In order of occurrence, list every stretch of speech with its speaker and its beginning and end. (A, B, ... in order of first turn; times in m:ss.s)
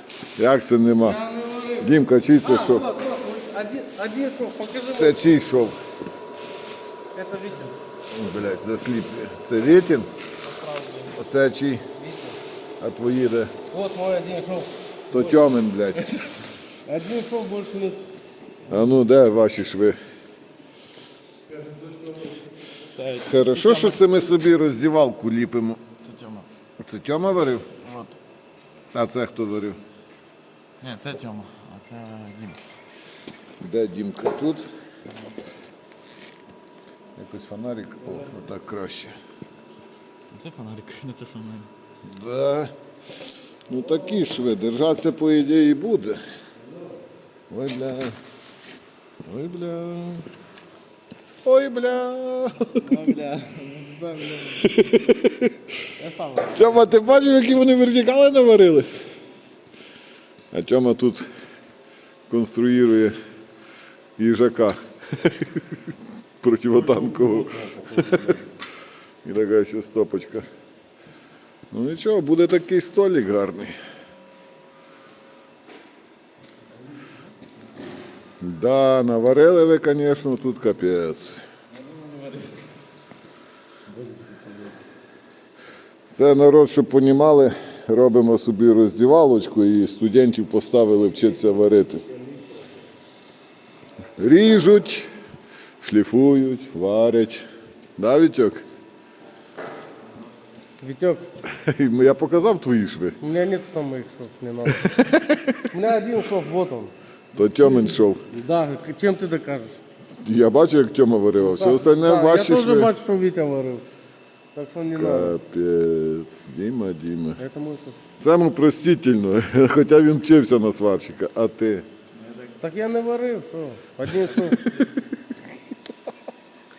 0:00.4-0:01.2 A
0:01.0-0:01.9 B
0:01.8-0:02.9 A
0:02.4-0:05.2 B
0:04.9-0:05.8 A
0:07.1-0:07.7 B
0:08.1-0:10.1 A
0:10.5-0:11.1 C
0:11.1-0:11.8 A
0:12.0-0:12.4 B
0:12.8-0:13.5 A
0:13.7-0:14.7 B
0:15.1-0:16.3 A
0:16.8-0:18.1 B
0:18.7-0:20.0 A
0:23.0-0:24.0 C
0:23.1-0:25.8 A
0:26.0-0:26.5 C
0:26.8-0:27.7 A
0:27.8-0:28.2 C
0:28.9-0:29.8 A
0:30.8-0:32.6 C
0:33.6-0:34.6 A
0:37.2-0:39.2 A
0:40.3-0:41.7 C
0:42.0-0:42.7 A
0:43.7-0:46.2 A
0:47.5-0:48.2 A
0:49.2-0:50.2 A
0:51.4-0:53.0 A
0:52.9-0:54.8 C
0:54.6-0:55.7 A
0:56.0-0:56.7 B
0:56.4-0:58.9 A
1:00.5-1:01.2 A
1:02.3-1:03.2 A
1:04.2-1:05.8 A
1:06.4-1:08.4 A
1:09.2-1:10.4 A
1:11.7-1:13.8 A
1:18.4-1:21.4 A
1:21.8-1:22.5 C
1:26.1-1:32.0 A
1:34.2-1:35.1 A
1:35.8-1:37.4 A
1:38.0-1:38.6 A
1:40.8-1:41.2 B
1:41.4-1:43.2 A
1:43.2-1:44.8 B
1:44.7-1:45.7 A
1:45.7-1:46.9 B
1:47.3-1:48.2 A
1:48.3-1:49.8 B
1:50.2-1:52.9 A
1:51.4-1:53.8 B
1:54.5-1:55.3 B
1:54.9-1:57.4 A
1:57.4-1:58.0 B
1:58.2-2:01.8 A
2:02.6-2:04.6 B
2:04.3-2:04.9 A